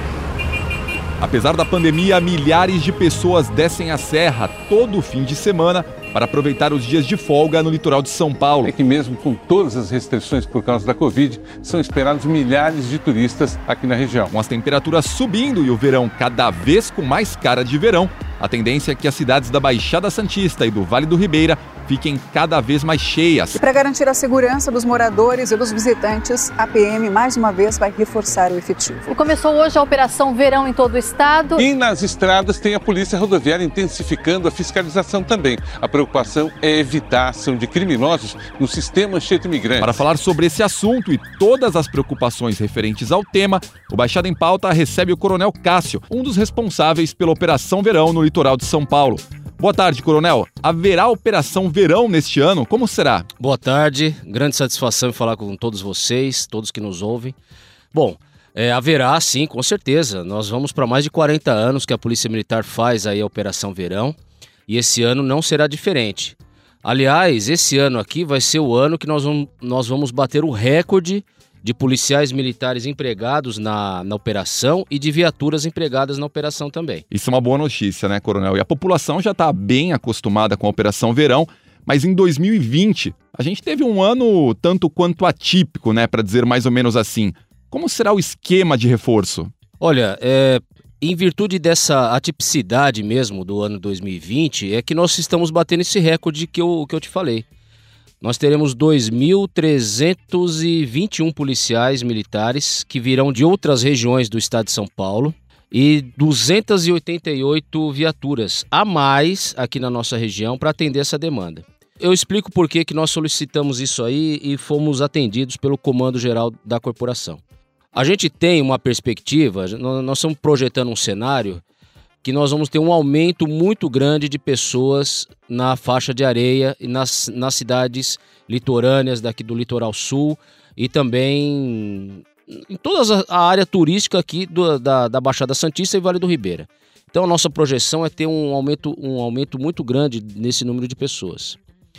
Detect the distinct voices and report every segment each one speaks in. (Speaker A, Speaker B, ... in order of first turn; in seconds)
Speaker A: 1.2-8.7, 14.3-23.6, 39.8-53.2, 77.1-89.5
Speaker B: 8.6-14.3, 31.6-40.0
Speaker C: 23.6-29.0
Speaker D: 29.1-31.6
Speaker E: 53.4-57.4, 57.9-64.2, 64.7-77.0, 89.8-97.5, 98.2-117.4, 117.9-121.6, 122.2-141.6